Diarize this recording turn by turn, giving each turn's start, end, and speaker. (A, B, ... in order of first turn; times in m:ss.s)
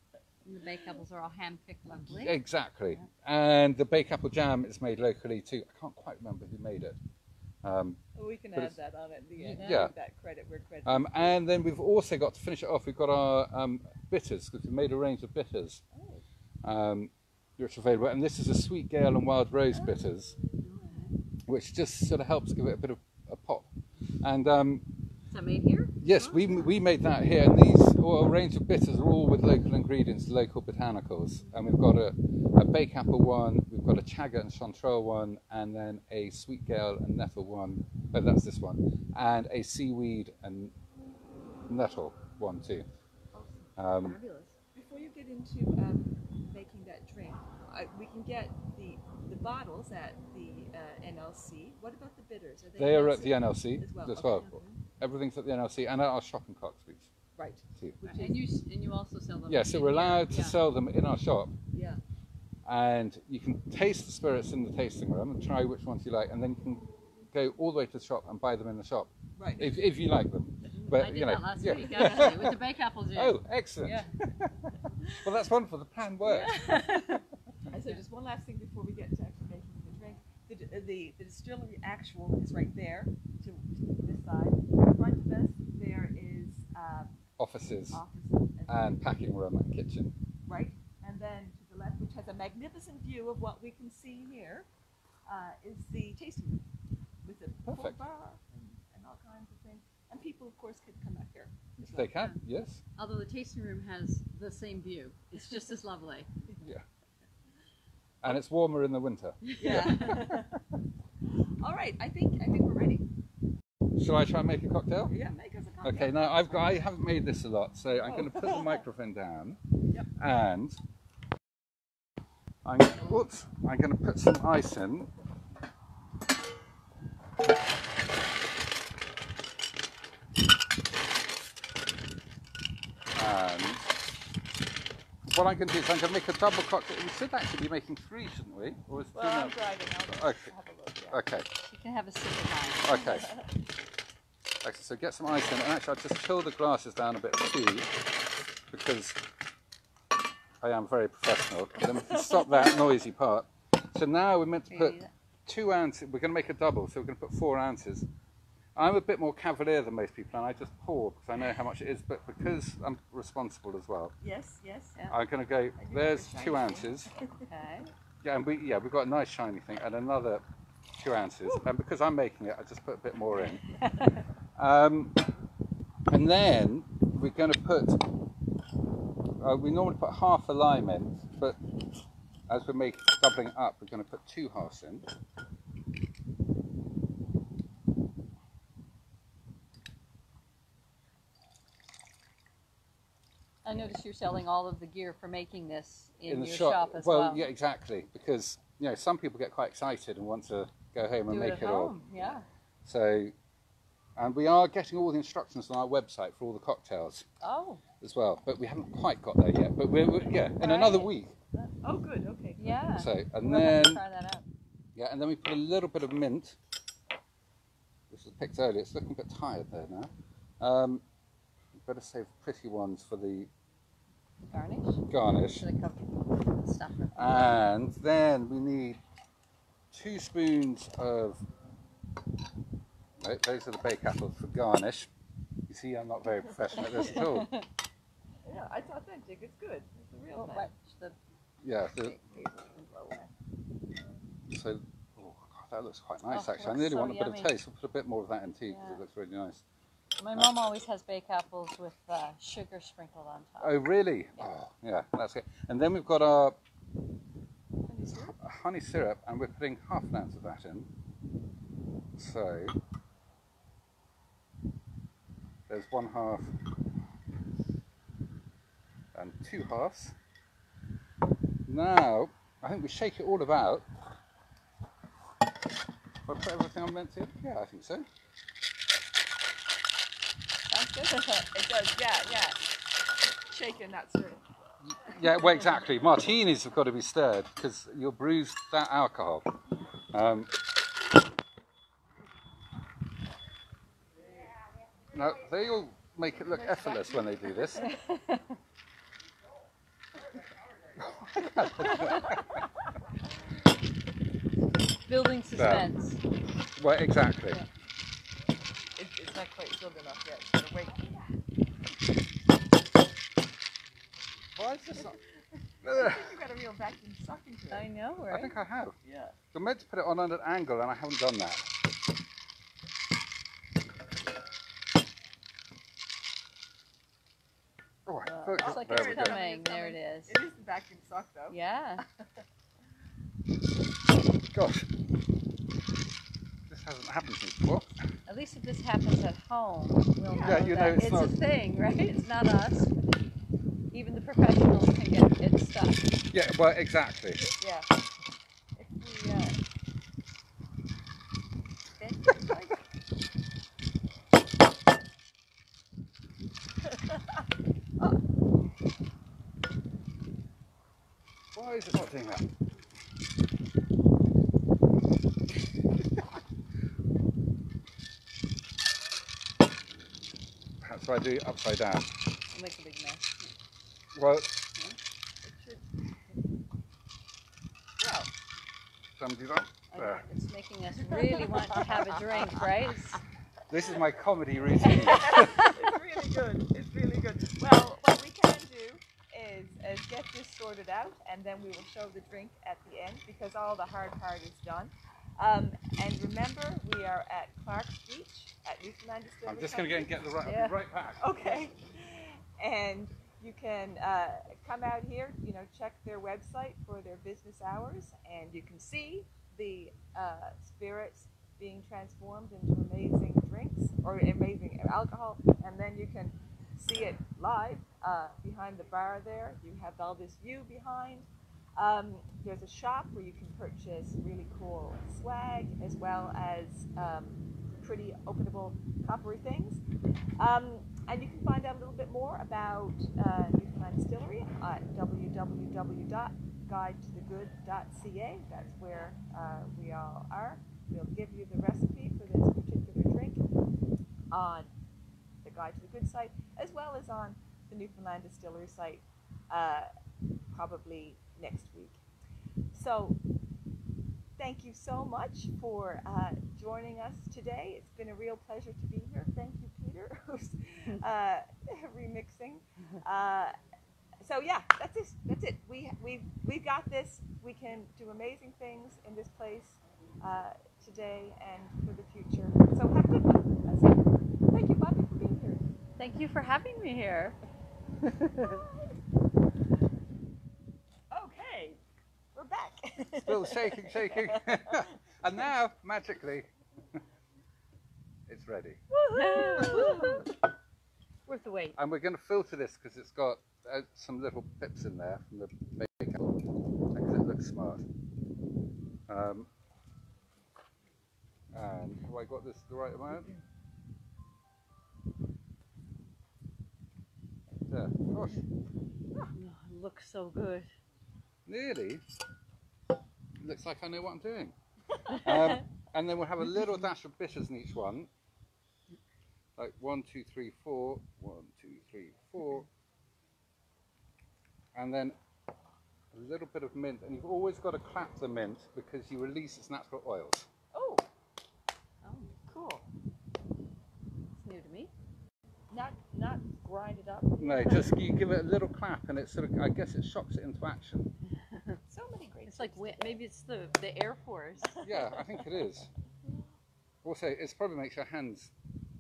0:00.4-0:02.4 A
0:02.1-0:07.0 B
0:07.6-0:08.0 B
0:08.2-0:11.3 C
0:09.4-0:09.9 A
0:09.6-0:09.9 B
0:10.9-0:15.8 B
0:15.9-0:16.2 C
0:16.6-0:20.4 B
0:20.6-0:21.1 A
0:21.5-0:23.7 B
0:24.2-0:24.9 B
0:25.3-0:26.8 A
0:26.0-0:40.7 B
0:41.7-0:42.9 B
0:43.3-0:54.4 C
0:43.8-0:44.2 B
0:52.8-0:57.1 B
0:54.1-0:54.8 A
0:57.4-0:58.4 C
0:58.0-1:00.6 A
0:59.5-1:01.5 B
1:01.7-1:02.0 C
1:02.7-1:16.8 B
1:09.4-1:09.8 C
1:10.8-1:14.1 A
1:16.2-1:17.2 A
1:17.7-1:27.2 C
1:27.4-1:28.0 B
1:27.9-1:29.0 C
1:28.7-1:30.2 B
1:30.5-1:34.7 C
1:35.3-1:36.7 C
1:37.2-1:42.2 C
1:37.7-1:38.0 B
1:41.8-1:42.8 B
1:43.0-1:46.3 A
1:48.2-1:50.6 B
1:49.5-1:50.3 A
1:49.6-1:50.6 C
1:51.6-1:53.1 C
1:54.0-1:55.1 B
1:55.1-1:56.7 C
1:55.8-1:59.6 B
1:58.1-1:58.8 C
2:00.2-2:00.8 B
2:02.6-2:05.1 B
2:13.2-2:13.9 B
2:15.3-2:19.6 B
2:19.1-2:21.2 C
2:20.1-2:20.5 B
2:21.1-2:21.5 B
2:21.6-2:23.2 A
2:22.8-2:23.3 B
2:22.9-2:23.4 C
2:24.6-2:27.9 B
2:28.7-2:29.2 B
2:30.6-2:38.1 B
2:34.7-2:35.1 A
2:38.8-2:44.1 B
2:44.2-2:45.0 C
2:45.1-2:47.1 B
2:45.8-2:47.5 C
2:47.5-2:47.9 A
2:48.2-2:50.4 B
2:51.0-2:53.8 B
2:53.8-2:54.2 A
2:54.6-2:55.3 B
2:56.1-2:58.2 B
2:59.4-3:01.6 B
3:02.5-3:05.1 B
3:13.6-3:17.5 A
3:16.3-3:22.0 B
3:21.3-3:22.5 A
3:22.8-3:23.3 B
3:24.2-3:27.3 B
3:27.4-3:27.8 A
3:28.0-3:31.4 B
3:30.6-3:31.1 A
3:31.6-3:32.9 C
3:32.6-3:34.4 A
3:32.9-3:34.0 B
3:35.0-3:36.6 B
3:38.1-3:41.0 B
3:41.8-3:43.5 B
3:44.4-3:47.6 A
3:45.1-3:45.7 B
3:47.2-3:49.0 B
3:49.9-3:51.4 B
3:53.2-3:55.1 B
3:55.7-3:57.5 B
3:56.8-3:57.7 A
3:58.4-4:00.7 C
4:00.4-4:01.2 A
4:01.6-4:02.2 B
4:02.0-4:03.3 A
4:04.5-4:09.6 B
4:06.3-4:07.5 A
4:08.7-4:09.0 A
4:10.2-4:13.8 A
4:13.6-4:16.6 B
4:17.9-4:18.4 C
4:18.3-4:20.9 B
4:22.2-4:22.8 B
4:25.7-4:26.9 B
4:29.1-4:30.2 B
4:31.7-4:33.9 B
4:36.2-4:38.1 B
4:40.7-4:42.6 C
4:43.5-4:44.4 C
4:44.8-4:49.6 B
4:50.1-4:50.5 B
4:55.1-4:58.0 B
4:56.5-4:58.0 C
4:57.8-4:58.4 A
5:01.0-5:02.6 B
5:05.1-5:06.2 A
5:05.5-5:05.9 B
5:06.8-5:07.6 B
5:09.0-5:11.2 C
5:14.6-5:15.2 B
5:15.8-5:17.9 C
5:15.8-5:16.3 B
5:17.7-5:18.6 A
5:18.3-5:19.0 B
5:19.0-5:19.4 C
5:19.5-5:21.6 B
5:28.1-5:29.4 B
5:28.3-5:30.4 A
5:28.6-5:31.6 C
5:31.5-5:32.0 A
5:34.5-5:34.9 B
5:36.7-5:37.9 B
5:38.3-5:43.0 A
5:40.3-5:40.7 C
5:40.3-5:41.4 B
5:43.9-5:46.2 A
5:46.3-5:47.5 B
5:47.4-5:47.9 C
5:48.8-5:49.6 C
5:52.0-5:52.8 C
6:01.5-6:02.5 B
6:10.8-6:12.1 B
6:12.5-6:13.5 A
6:14.1-6:14.6 B
6:15.4-6:15.9 C
6:18.0-6:18.3 C
6:19.2-6:20.2 B
6:19.9-6:23.2 A
6:21.2-6:22.4 C
6:23.7-6:25.7 B
6:24.9-6:40.2 C
6:24.9-6:25.7 A
6:39.5-6:41.4 B
6:40.4-6:40.8 A
6:41.2-7:09.8 C
7:10.4-7:23.5 C
7:24.3-7:24.7 C
7:25.4-7:29.9 C
7:30.5-7:32.0 C
7:32.7-7:33.2 C
7:34.4-7:43.6 C
7:44.2-7:55.6 C
7:56.0-7:57.4 A
7:58.4-7:58.7 C
8:01.1-8:01.8 C
8:02.4-8:05.0 C
8:03.2-8:07.0 B
8:08.3-8:08.8 B
8:08.9-8:10.3 C
8:09.1-8:10.3 A
8:11.3-8:11.8 A
8:11.8-8:16.4 B
8:16.9-8:17.8 B
8:19.1-8:19.5 B
8:21.5-8:23.4 B
8:27.7-8:28.4 B
8:29.3-8:30.7 A
8:31.5-8:32.0 B
8:33.4-8:34.6 B
8:35.1-8:38.1 B
8:39.6-8:42.7 B
8:44.7-8:45.2 B
8:46.1-8:50.5 B
8:50.7-8:51.1 C
8:52.0-8:52.3 A
8:52.5-8:52.8 C
8:54.3-8:54.9 A
8:55.7-8:57.9 C
8:57.4-9:01.1 B
9:01.5-9:01.8 A
9:01.9-9:03.2 C
9:02.5-9:04.8 A
9:04.8-9:05.9 B
9:07.0-9:08.5 B